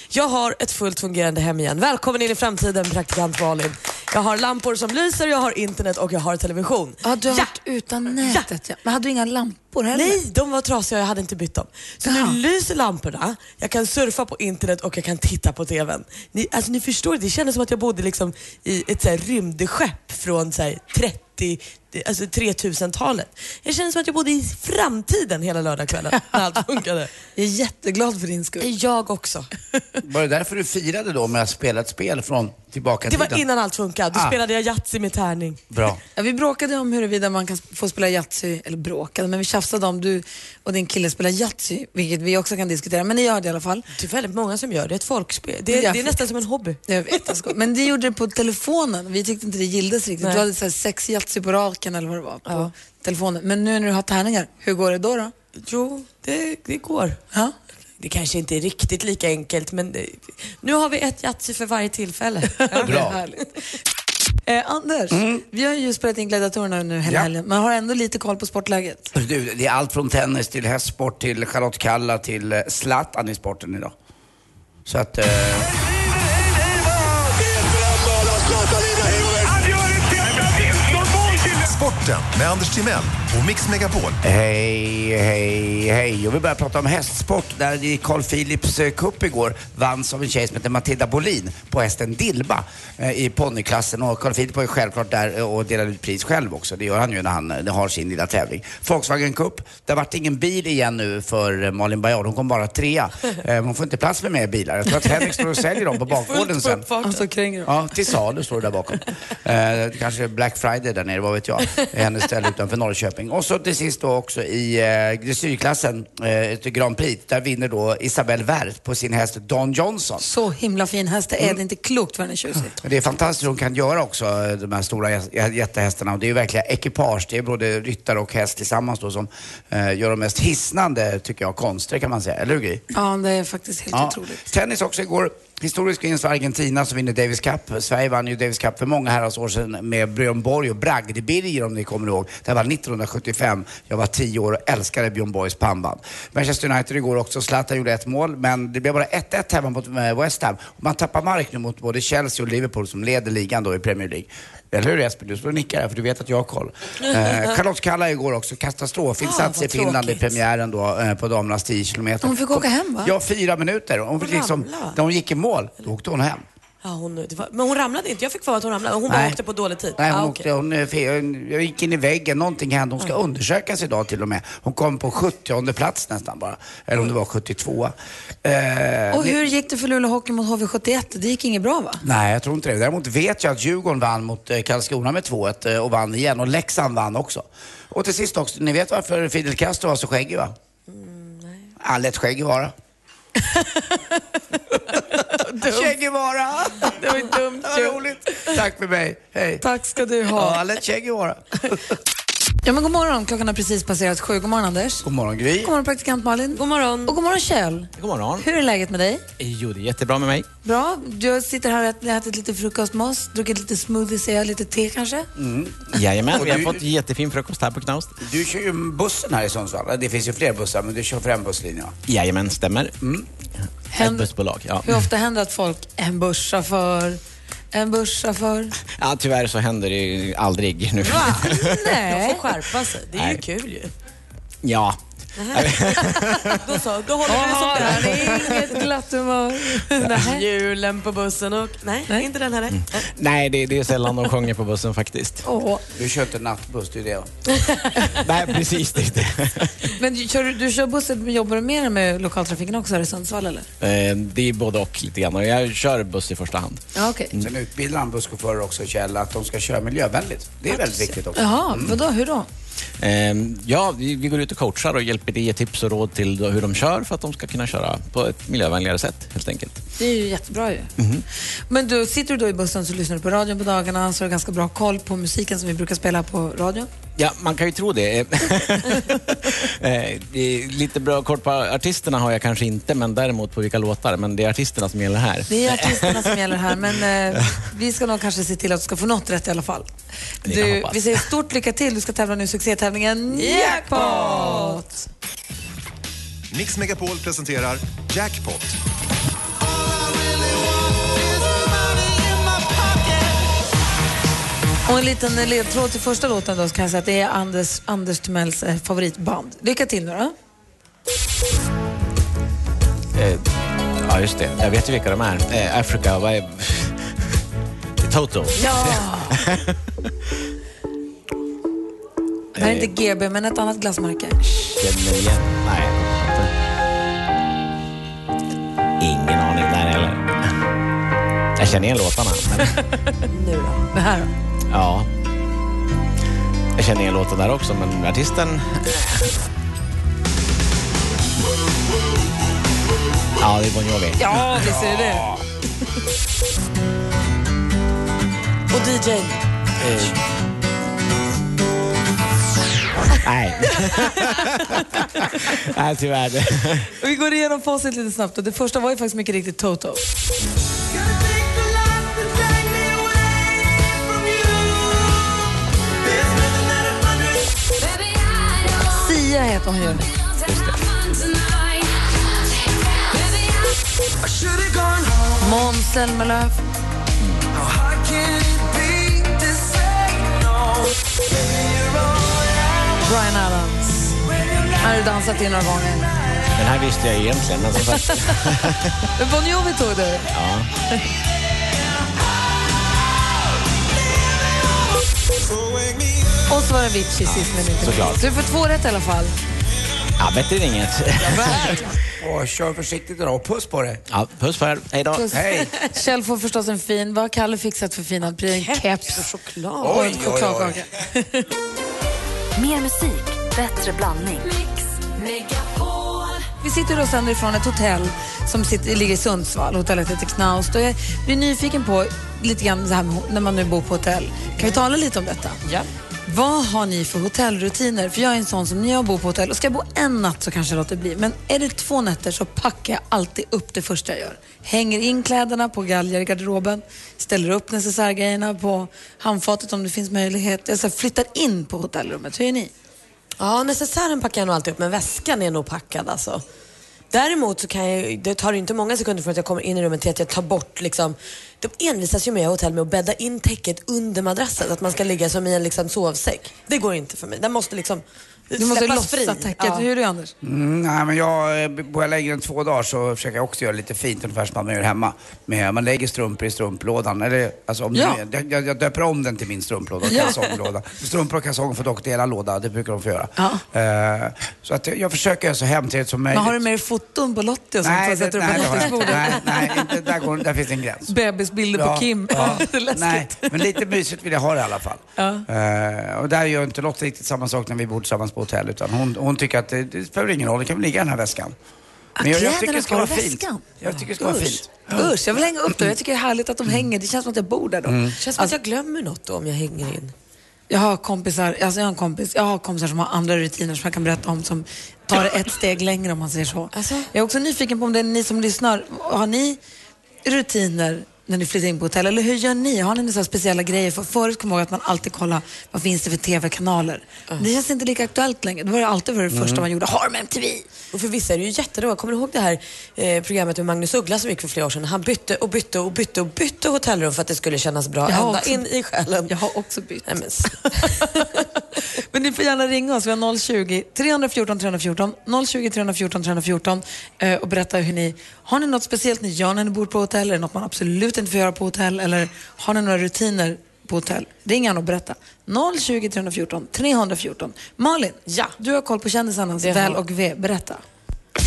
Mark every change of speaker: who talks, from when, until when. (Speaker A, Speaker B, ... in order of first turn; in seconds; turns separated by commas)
Speaker A: 0.1-7.5, Speaker B: 7.0-10.2, Speaker A: 9.9-27.1, Speaker B: 12.1-12.4, Speaker B: 27.4-28.7, Speaker A: 28.6-29.5, Speaker C: 30.0-33.4, Speaker A: 33.1-35.6, Speaker C: 35.7-36.0, Speaker B: 36.2-43.8, Speaker A: 44.0-46.8, Speaker B: 45.7-46.2, Speaker B: 46.9-55.3, Speaker A: 55.6-57.2, Speaker A: 58.0-63.1, Speaker B: 62.5-63.5, Speaker C: 62.8-63.2, Speaker B: 64.5-69.1, Speaker C: 65.1-65.4, Speaker C: 69.2-73.9, Speaker C: 74.9-75.7, Speaker D: 76.8-84.2, Speaker C: 84.2-106.9, Speaker A: 106.1-107.3, Speaker B: 107.0-107.7, Speaker C: 107.7-120.2, Speaker B: 120.2-122.8, Speaker C: 122.8-132.8, Speaker B: 132.9-134.4, Speaker C: 133.9-166.4, Speaker A: 157.2-157.6, Speaker A: 159.2-160.4, Speaker B: 162.2-163.1, Speaker A: 164.2-165.0, Speaker A: 166.8-170.5, Speaker C: 169.1-169.4, Speaker C: 170.0-179.4, Speaker B: 179.1-182.0, Speaker C: 182.0-190.5, Speaker A: 190.9-191.7, Speaker C: 191.8-192.7, Speaker C: 195.6-199.6, Speaker A: 196.8-198.5, Speaker B: 199.6-200.6, Speaker C: 200.3-201.6, Speaker B: 202.6-205.1, Speaker C: 205.0-205.7, Speaker B: 205.6-209.2, Speaker A: 206.6-207.2, Speaker E: 208.0-208.5, Speaker E: 209.4-210.5, Speaker B: 210.6-215.3, Speaker C: 215.4-216.8, Speaker E: 215.9-218.1, Speaker C: 218.2-221.9, Speaker E: 222.1-222.9, Speaker C: 223.0-223.3, Speaker B: 223.9-224.3, Speaker E: 224.0-225.0, Speaker B: 224.8-227.2, Speaker B: 227.7-228.7, Speaker E: 229.0-231.8, Speaker A: 231.0-233.9, Speaker B: 231.4-232.4, Speaker E: 233.2-233.4, Speaker E: 234.6-235.0, Speaker A: 235.4-238.7, Speaker E: 235.5-236.6, Speaker B: 237.3-240.4, Speaker A: 240.0-243.1, Speaker E: 242.8-245.4, Speaker B: 245.4-245.8, Speaker C: 246.0-247.3, Speaker E: 248.2-249.7, Speaker B: 249.9-253.7, Speaker E: 253.8-257.5, Speaker B: 256.9-257.3, Speaker C: 257.4-261.9, Speaker B: 261.3-262.5, Speaker E: 263.0-269.8, Speaker B: 270.0-270.9, Speaker E: 271.0-271.2, Speaker B: 271.7-276.9, Speaker E: 277.2-286.3, Speaker B: 285.5-289.9, Speaker E: 290.4-291.2, Speaker B: 290.5-295.1, Speaker C: 294.1-294.4, Speaker D: 296.5-298.8, Speaker D: 299.6-303.6, Speaker B: 304.9-310.3, Speaker E: 313.1-313.4, Speaker E: 314.0-317.0, Speaker E: 318.0-319.8, Speaker B: 318.7-319.3, Speaker E: 322.6-322.9, Speaker B: 322.6-324.4, Speaker E: 324.4-326.5, Speaker E: 329.0-330.5, Speaker E: 331.6-332.8, Speaker A: 333.3-333.8, Speaker B: 333.9-334.3, Speaker E: 334.7-335.1, Speaker E: 336.8-339.3, Speaker E: 343.4-344.4, Speaker B: 344.2-345.3, Speaker C: 344.6-345.4, Speaker A: 348.7-349.4, Speaker E: 349.8-350.2, Speaker E: 353.2-354.8, Speaker E: 355.4-356.9, Speaker B: 357.0-360.0, Speaker D: 361.1-364.7, Speaker D: 366.1-367.2, Speaker F: 367.8-369.0, Speaker B: 368.9-370.1, Speaker F: 370.1-373.8, Speaker E: 370.4-370.8, Speaker B: 375.4-376.6, Speaker E: 377.2-377.4, Speaker B: 383.0-384.2, Speaker B: 384.8-386.1, Speaker E: 386.5-388.9, Speaker B: 389.2-390.3, Speaker E: 390.3-390.7, Speaker B: 396.5-399.4, Speaker E: 397.2-398.2, Speaker E: 400.2-401.9, Speaker B: 401.5-401.8, Speaker C: 401.7-404.0, Speaker E: 404.1-405.3, Speaker B: 405.1-409.2, Speaker C: 405.3-405.7, Speaker A: 408.5-410.2, Speaker C: 409.8-410.8, Speaker B: 409.8-411.4, Speaker F: 412.6-416.4, Speaker B: 416.6-425.6, Speaker B: 426.3-442.7, Speaker A: 443.4-446.4, Speaker A: 447.1-459.9, Speaker B: 458.6-460.3, Speaker C: 460.4-476.6, Speaker B: 467.9-468.2, Speaker B: 470.1-470.3, Speaker B: 473.4-473.6, Speaker B: 476.3-479.8, Speaker C: 477.8-481.1, Speaker B: 481.1-483.6, Speaker C: 481.7-491.6, Speaker B: 485.2-485.5, Speaker B: 492.2-493.7, Speaker C: 492.2-495.1, Speaker B: 494.2-498.5, Speaker C: 497.9-498.2, Speaker A: 498.2-500.1, Speaker B: 500.7-509.6, Speaker A: 506.7-507.1, Speaker B: 510.2-520.7, Speaker C: 519.3-519.6, Speaker A: 520.9-529.4, Speaker B: 528.1-528.6, Speaker B: 529.3-530.1, Speaker A: 530.1-531.0, Speaker B: 530.6-531.3, Speaker B: 532.1-550.8, Speaker A: 548.3-548.5, Speaker A: 549.6-550.0